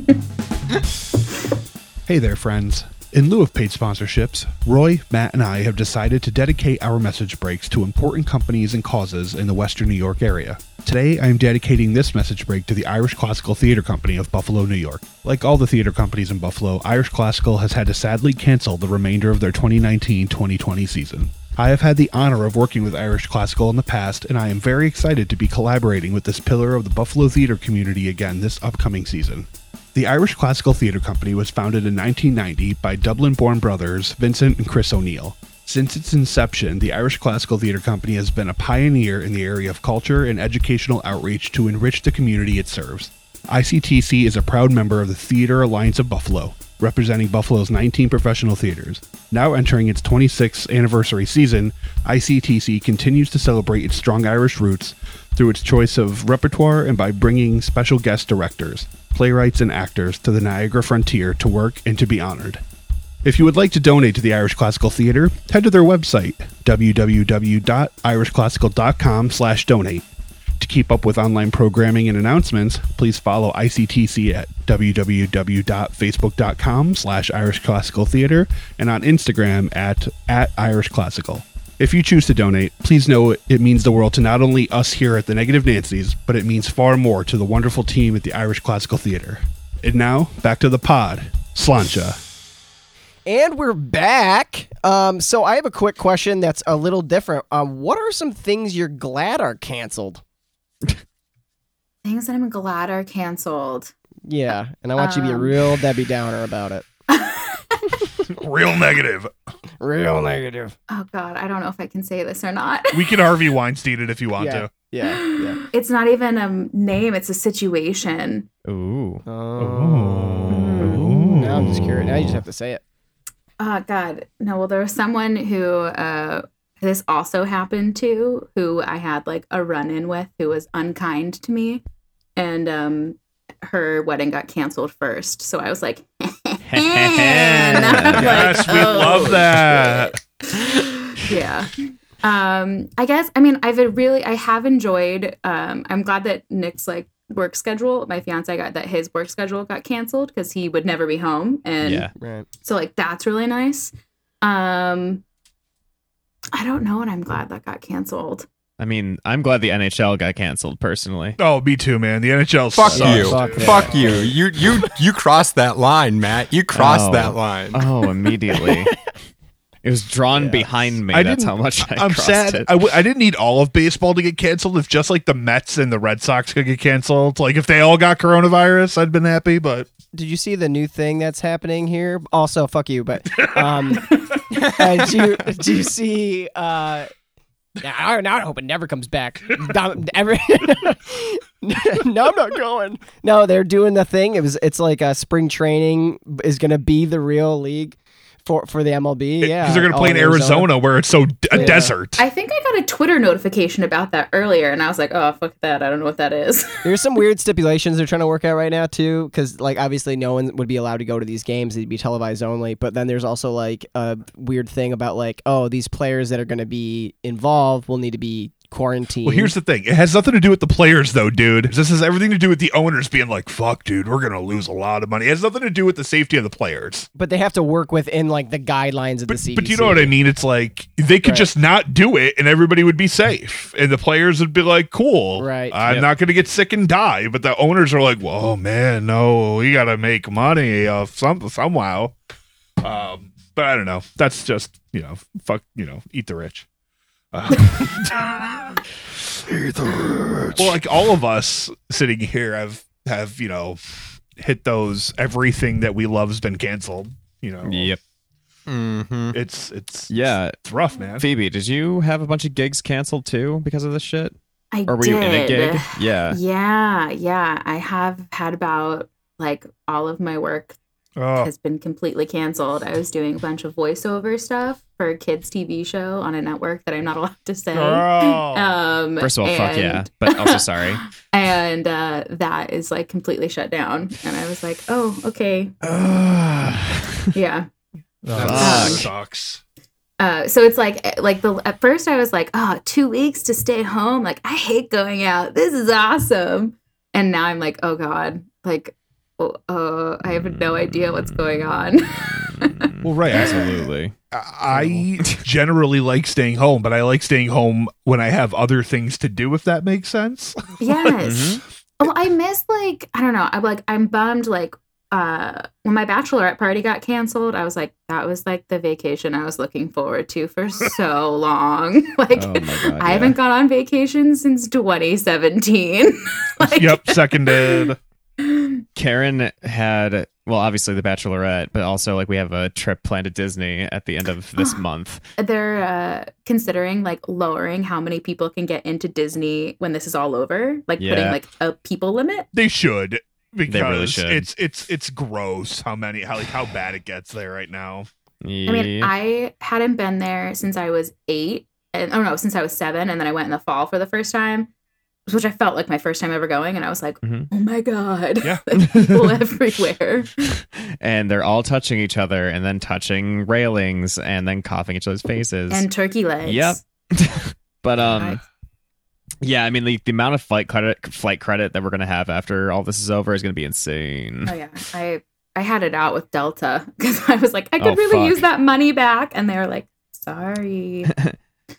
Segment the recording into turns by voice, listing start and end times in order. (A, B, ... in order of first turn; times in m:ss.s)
0:02.1-1:02.6 A
1:03.2-1:10.0 A
1:10.6-1:32.2 A
1:33.3-1:40.2 B
1:42.0-1:43.9 C
1:44.2-1:46.8 B
1:45.0-1:45.6 C
1:47.1-1:47.8 C
1:48.3-1:49.3 A
1:49.8-1:50.8 B
1:50.9-1:53.2 C
1:52.9-1:54.7 A
1:54.4-1:55.6 B
1:55.7-1:58.5 C
1:58.7-1:59.2 D
1:59.3-2:02.8 B
1:59.6-2:02.0 A
2:00.5-2:01.0 C
2:03.6-2:11.8 C
2:12.4-2:32.1 C
2:16.6-2:18.6 D
2:18.1-2:20.2 A
2:31.8-2:32.1 D
2:32.2-2:32.5 B
2:32.6-2:35.2 C
2:36.5-2:38.5 C
2:38.8-2:41.4 D
2:41.4-2:44.3 A
2:42.7-2:47.9 E
2:42.9-2:44.3 B
2:46.7-2:48.9 D
2:49.8-2:52.7 D
2:50.3-2:51.0 B
2:51.1-2:59.9 A
3:00.1-3:07.1 B
3:03.4-3:04.4 A
3:07.8-3:20.7 B
3:19.4-3:22.2 A
3:21.5-3:22.0 B
3:21.5-3:26.8 C
3:26.8-3:39.6 B
3:39.2-3:47.1 A
3:47.2-3:50.1 B
3:49.3-4:02.1 A
3:51.2-3:51.5 B
3:55.4-3:55.8 B
4:02.8-4:06.7 A
4:07.3-4:08.8 A
4:09.5-4:13.8 A
4:14.4-4:17.9 A
4:17.6-4:18.0 D
4:18.7-4:19.4 E
4:19.3-4:21.2 A
4:20.1-4:20.6 D
4:21.2-4:24.4 D
4:24.7-4:30.8 C
4:24.9-4:26.4 D
4:31.2-4:31.5 A
4:31.4-4:40.6 C
4:37.7-4:38.8 A
4:39.2-4:41.0 D
4:41.2-4:45.7 C
4:45.8-4:47.0 D
4:47.3-4:47.7 C
4:48.2-4:49.6 A
4:48.4-4:48.8 E
4:48.4-4:49.1 D
4:48.6-4:49.1 C
4:50.2-5:03.5 C
5:02.8-5:04.1 D
5:03.0-5:11.1 A
5:10.8-5:27.9 C
5:11.2-5:11.6 D
5:22.4-5:23.4 D
5:26.6-5:28.0 A
5:28.4-5:28.8 C
5:29.0-5:35.2 D
5:35.4-5:42.5 C
5:41.0-5:41.4 D
5:42.5-5:48.1 A
5:43.7-5:44.5 D
5:48.4-5:49.1 D
5:48.7-5:54.7 C
5:55.3-6:00.5 C
5:57.2-5:57.5 D
5:58.4-5:59.3 A
6:01.0-6:05.9 D
6:05.7-6:06.8 C
6:06.4-6:08.4 D
6:09.4-6:14.5 D
6:14.4-6:21.1 C
6:17.8-6:18.4 D